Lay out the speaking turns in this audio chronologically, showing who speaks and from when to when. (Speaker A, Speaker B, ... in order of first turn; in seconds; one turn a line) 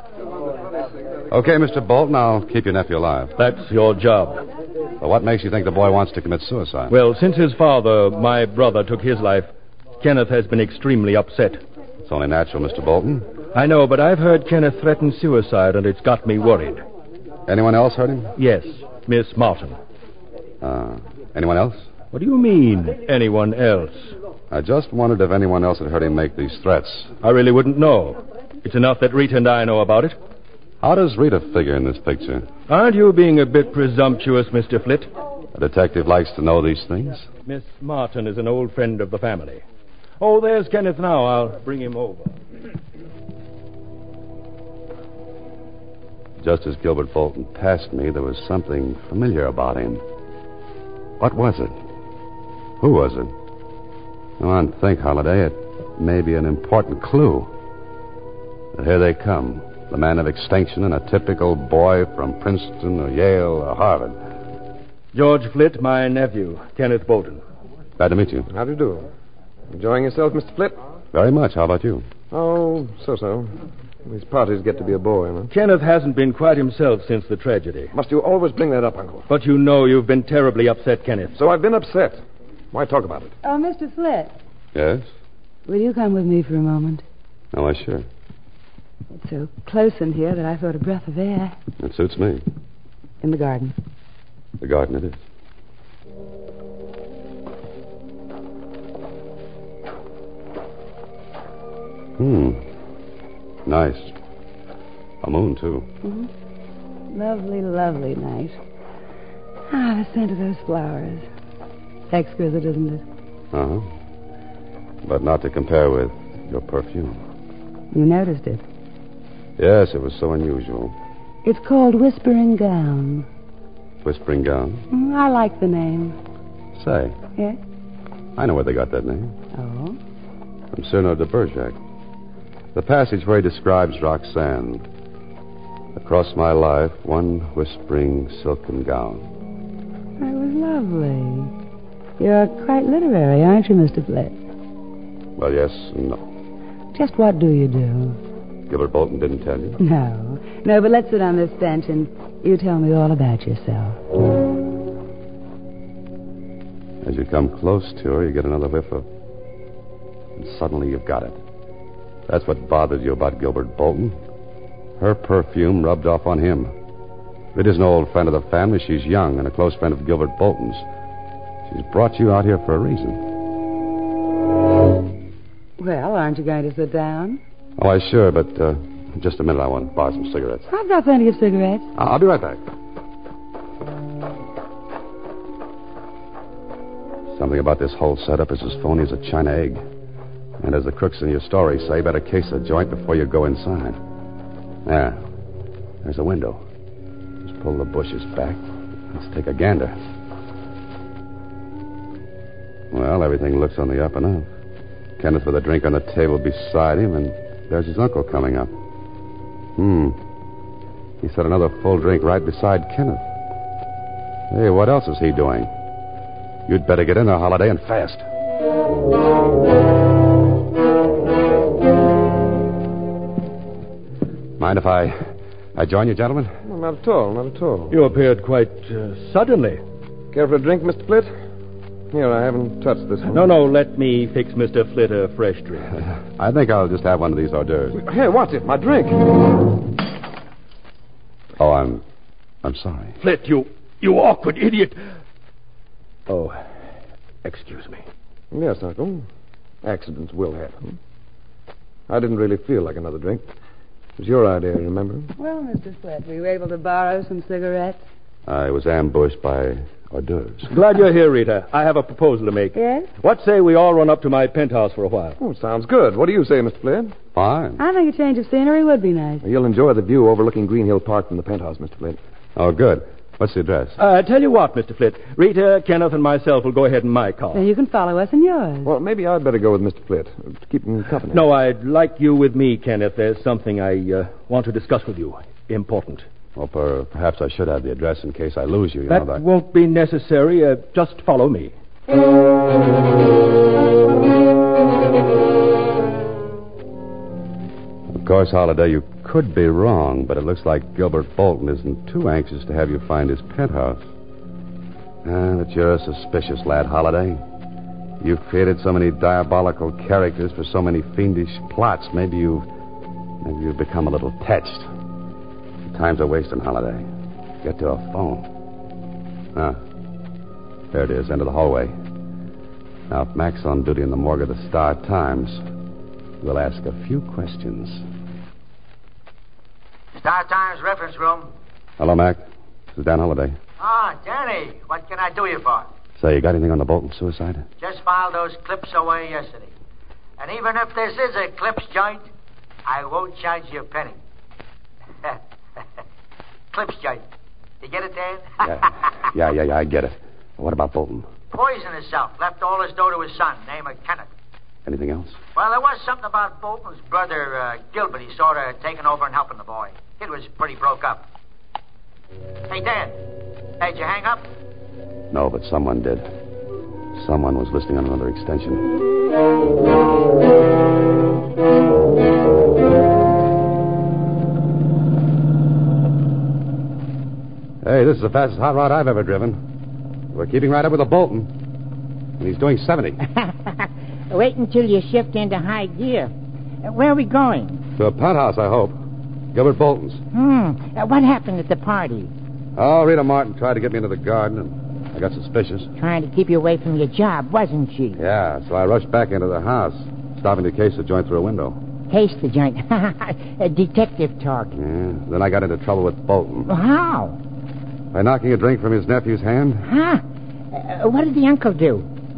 Speaker A: 1.3-3.4
Speaker B: 3.4-4.4
Speaker A: 5.0-7.0
Speaker B: 6.9-9.5
Speaker B: 10.0-11.6
Speaker A: 12.1-13.3
Speaker B: 13.5-16.8
Speaker A: 17.5-18.3
Speaker B: 18.4-19.8
Speaker A: 20.6-21.9
Speaker B: 22.1-24.1
Speaker A: 24.5-27.1
Speaker B: 27.2-30.2
Speaker A: 30.8-32.5
Speaker B: 32.7-35.1
Speaker A: 35.5-37.3
Speaker B: 37.5-39.6
Speaker B: 40.2-42.3
Speaker A: 46.4-50.0
Speaker A: 51.2-51.8
Speaker A: 52.8-53.3
Speaker A: 54.4-57.5
Speaker A: 58.7-64.2
Speaker B: 65.1-67.4
Speaker A: 68.0-68.5
Speaker C: 68.5-69.1
Speaker C: 69.7-70.8
Speaker A: 71.1-72.1
Speaker C: 72.3-73.5
Speaker C: 74.0-75.5
Speaker B: 75.5-77.9
Speaker C: 77.9-79.3
Speaker B: 79.3-81.4
Speaker C: 81.3-83.3
Speaker D: 83.4-84.3
Speaker A: 84.7-85.1
Speaker D: 85.7-87.0
Speaker A: 87.5-88.1
Speaker D: 89.2-91.6
Speaker A: 91.8-92.4
Speaker D: 93.2-93.8
Speaker A: 94.6-95.2
Speaker A: 102.2-102.6
Speaker A: 103.7-104.2
Speaker A: 105.2-105.9
Speaker D: 106.0-106.3
Speaker D: 107.1-108.6
Speaker D: 109.7-111.3
Speaker D: 112.1-113.0
Speaker A: 113.5-113.9
Speaker A: 115.0-117.2
Speaker D: 117.9-118.6
Speaker A: 119.6-121.0
Speaker D: 121.4-123.3
Speaker A: 124.0-124.8
Speaker D: 124.9-126.2
Speaker A: 126.8-127.2
Speaker A: 128.4-129.3
Speaker D: 129.5-130.0
Speaker A: 130.7-131.8
Speaker A: 132.8-134.9
Speaker A: 135.9-139.3
Speaker D: 140.2-141.5
Speaker D: 142.2-144.4
Speaker A: 145.4-146.2
Speaker D: 146.9-148.2
Speaker A: 148.7-149.8
Speaker D: 149.8-154.0
Speaker A: 157.0-159.1
Speaker A: 160.4-161.4
Speaker A: 162.3-164.2
Speaker A: 165.0-166.7
Speaker A: 167.5-170.8
Speaker A: 171.7-173.2
Speaker D: 175.8-177.4
Speaker A: 177.8-180.7
Speaker D: 180.7-181.9
Speaker A: 182.0-182.6
Speaker A: 187.3-189.8
Speaker A: 190.6-194.0
Speaker A: 194.8-195.2
Speaker A: 196.0-196.6
Speaker A: 197.4-200.0
Speaker A: 202.9-204.5
Speaker A: 205.2-208.7
Speaker A: 209.8-210.2
Speaker A: 211.2-213.2
Speaker A: 214.5-215.7
Speaker A: 216.7-218.2
Speaker A: 224.6-225.2
Speaker A: 225.8-226.6
Speaker C: 226.6-228.0
Speaker B: 227.9-229.8
Speaker C: 230.3-231.3
Speaker C: 232.1-233.5
Speaker B: 233.3-235.9
Speaker A: 236.4-238.0
Speaker C: 237.9-239.2
Speaker A: 241.6-242.0
Speaker A: 242.6-243.2
Speaker B: 243.2-245.0
Speaker B: 246.3-246.6
Speaker B: 247.4-248.0
Speaker C: 248.5-249.2
Speaker C: 249.8-251.0
Speaker C: 252.1-253.5
Speaker C: 254.2-255.3
Speaker D: 255.4-258.0
Speaker A: 258.5-260.7
Speaker B: 260.7-265.4
Speaker D: 262.8-263.1
Speaker C: 265.4-267.2
Speaker A: 267.3-267.8
Speaker D: 267.8-269.4
Speaker C: 269.4-272.2
Speaker A: 272.6-274.0
Speaker B: 274.0-277.7
Speaker D: 277.5-278.9
Speaker C: 278.9-281.5
Speaker B: 281.3-286.3
Speaker A: 286.6-289.4
Speaker B: 289.1-291.7
Speaker A: 298.1-304.0
Speaker A: 305.2-307.4
Speaker A: 308.2-312.7
Speaker A: 313.4-314.9
Speaker A: 315.9-317.1
Speaker A: 317.6-318.5
Speaker A: 319.6-319.8
Speaker A: 320.9-321.9
Speaker A: 323.1-325.6
Speaker A: 326.4-328.1
Speaker E: 330.1-331.5
Speaker A: 332.0-332.4
Speaker A: 332.9-333.6
Speaker E: 333.8-335.9
Speaker A: 336.2-337.7
Speaker E: 337.8-339.7
Speaker E: 340.4-342.3
Speaker E: 342.9-344.2
Speaker E: 346.7-347.2
Speaker E: 347.8-348.9
Speaker A: 348.6-351.3
Speaker E: 351.5-354.3
Speaker A: 354.9-355.4
Speaker E: 355.6-361.2
Speaker E: 362.7-363.1
Speaker E: 363.8-364.5
Speaker A: 365.3-366.3
Speaker A: 367.1-368.9
Speaker A: 377.8-379.6
Speaker A: 380.3-381.5
Speaker A: 382.4-383.2
Speaker F: 383.3-386.3
Speaker F: 386.8-387.8
Speaker A: 388.0-389.0
Speaker A: 389.5-390.2
Speaker F: 390.3-392.3
Speaker A: 392.8-395.9
Speaker F: 396.0-398.2
Speaker A: 398.2-401.8
Speaker F: 402.1-404.7
Speaker A: 404.7-406.7
Speaker F: 406.7-407.4
Speaker A: 408.1-409.9
Speaker F: 409.8-412.1